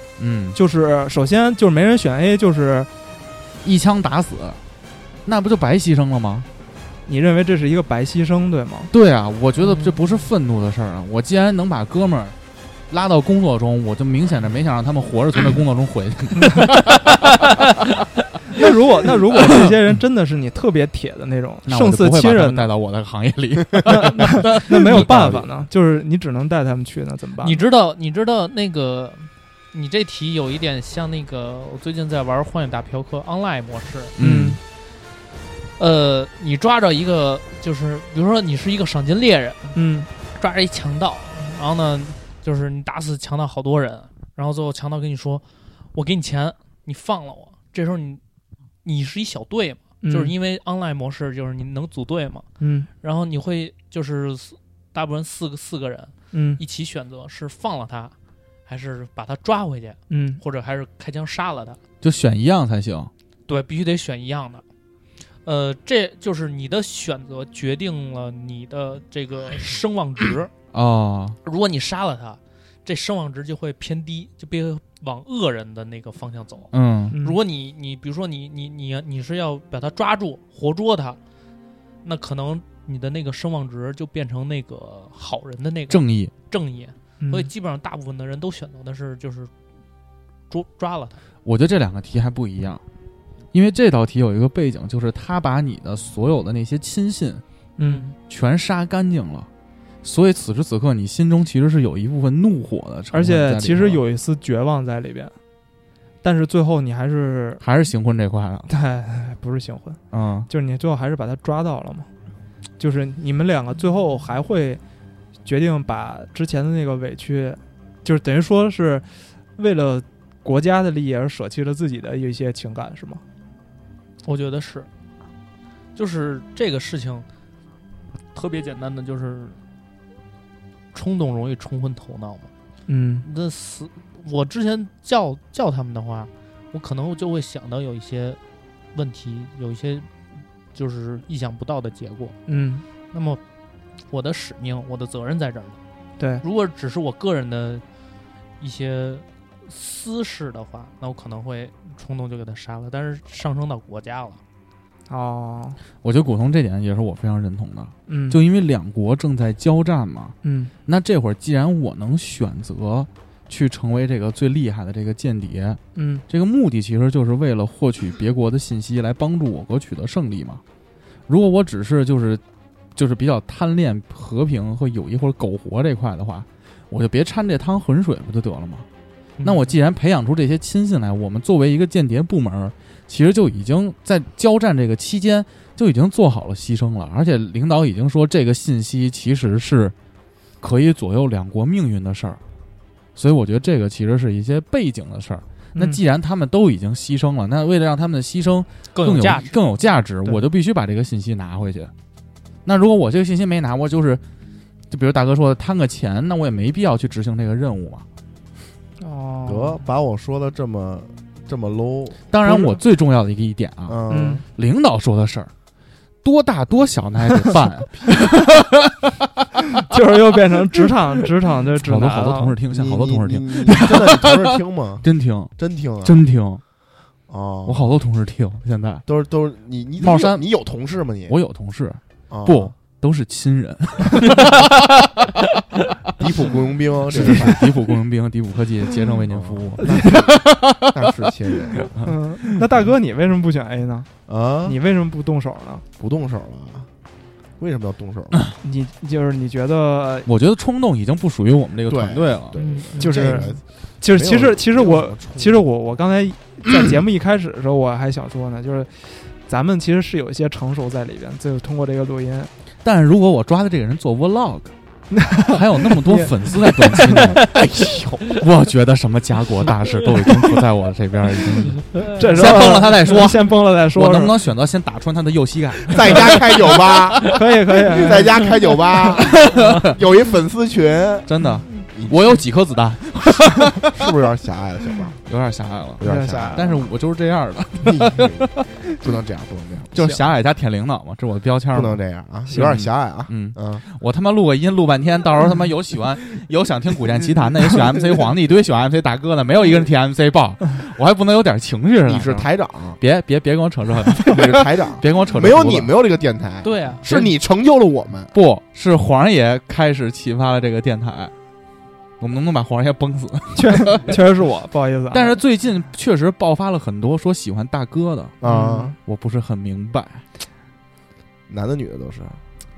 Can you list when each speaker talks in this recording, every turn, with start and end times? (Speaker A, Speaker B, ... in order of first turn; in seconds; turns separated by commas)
Speaker A: 0.2-0.6, Speaker B: 0.5-2.9, Speaker A: 3.6-4.6, Speaker A: 5.2-6.5, Speaker B: 7.1-8.9, Speaker A: 8.9-12.3, Speaker C: 9.6-10.3, Speaker A: 12.9-17.1, Speaker B: 18.5-22.7, Speaker A: 21.7-25.5, Speaker B: 23.9-27.6, Speaker C: 27.4-34.1, Speaker A: 34.2-34.6, Speaker B: 34.2-34.6, Speaker C: 35.8-39.8, Speaker B: 39.8-40.1, Speaker C: 40.3-48.2, Speaker C: 48.8-52.5, Speaker B: 50.0-50.3, Speaker B: 52.6-52.9, Speaker C: 53.0-58.1, Speaker B: 56.3-56.6, Speaker C: 58.7-61.8, Speaker B: 60.1-60.4, Speaker A: 62.0-63.1, Speaker C: 63.5-64.6, Speaker C: 65.5-70.5, Speaker A: 70.7-71.4, Speaker C: 71.5-81.2, Speaker A: 76.7-77.2, Speaker B: 77.1-77.4, Speaker C: 82.0-89.5, Speaker A: 85.9-86.3, Speaker B: 87.2-87.5, Speaker C: 90.5-91.2, Speaker A: 91.5-92.8, Speaker A: 93.5-97.4, Speaker B: 97.8-98.1, Speaker C: 97.8-98.1, Speaker A: 98.3-99.5, Speaker A: 100.0-104.0, Speaker B: 103.1-105.3, Speaker B: 106.2-107.6, Speaker A: 107.6-108.7, Speaker B: 108.7-112.1, Speaker A: 110.1-110.5, Speaker B: 112.8-114.8, Speaker B: 115.5-123.2, Speaker C: 124.2-124.9, Speaker C: 126.0-127.3, Speaker C: 128.3-129.6, Speaker C: 130.9-132.5, Speaker B: 132.9-133.3, Speaker C: 133.2-138.4, Speaker C: 138.9-140.1, Speaker C: 140.7-142.4, Speaker B: 142.5-142.8, Speaker C: 143.1-143.4, Speaker C: 144.1-145.8, Speaker B: 146.2-146.4, Speaker C: 146.4-147.8, Speaker C: 148.6-154.4, Speaker B: 155.1-155.8, Speaker A: 156.0-170.6, Speaker B: 158.1-158.4, Speaker B: 160.4-160.7, Speaker B: 165.9-166.2, Speaker A: 171.3-172.4, Speaker A: 173.0-178.9, Speaker C: 179.4-179.8, Speaker A: 179.4-189.9, Speaker A: 190.6-192.4, Speaker A: 193.2-201.9, Speaker B: 195.8-196.0, Speaker C: 198.9-199.6, Speaker A: 202.7-204.2, Speaker A: 204.9-208.0, Speaker B: 209.0-209.8, Speaker D: 209.4-212.8, Speaker A: 212.3-215.5, Speaker D: 213.9-214.4, Speaker B: 214.1-214.4, Speaker A: 216.2-218.9, Speaker B: 219.9-222.6, Speaker A: 221.8-226.6, Speaker D: 222.7-226.2, Speaker D: 227.3-227.9, Speaker A: 227.7-229.1, Speaker D: 229.1-231.4, Speaker A: 230.0-230.4, Speaker A: 231.3-235.1, Speaker D: 232.3-232.7, Speaker D: 236.2-237.7, Speaker A: 237.1-240.8, Speaker D: 239.3-241.9, Speaker B: 239.8-240.2, Speaker B: 242.0-244.1, Speaker D: 244.3-244.8, Speaker B: 244.7-245.8, Speaker D: 246.0-246.9, Speaker D: 247.6-248.4, Speaker B: 248.6-250.3, Speaker A: 250.3-252.6, Speaker D: 251.9-255.6, Speaker C: 252.6-253.5, Speaker B: 253.0-262.5, Speaker A: 262.8-264.7, Speaker B: 265.1-266.3, Speaker A: 265.5-277.0, Speaker B: 266.9-267.2, Speaker B: 272.1-274.3, Speaker D: 275.9-282.4, Speaker B: 277.3-278.3, Speaker A: 279.0-279.9, Speaker A: 281.3-284.0, Speaker D: 283.9-285.2, Speaker A: 285.2-288.8, Speaker D: 286.0-286.9, Speaker B: 286.0-286.9, Speaker D: 287.8-290.2, Speaker A: 289.9-302.5, Speaker D: 291.7-293.8, Speaker D: 302.1-303.0, Speaker A: 303.0-305.9, Speaker D: 304.3-308.3, Speaker C: 306.6-307.1, Speaker A: 307.1-307.3, Speaker A: 308.3-311.3, Speaker A: 312.2-314.2, Speaker B: 313.6-315.4, Speaker A: 315.1-318.4, Speaker D: 318.4-318.9, Speaker B: 318.4-318.9, Speaker A: 319.0-320.2, Speaker D: 321.5-322.4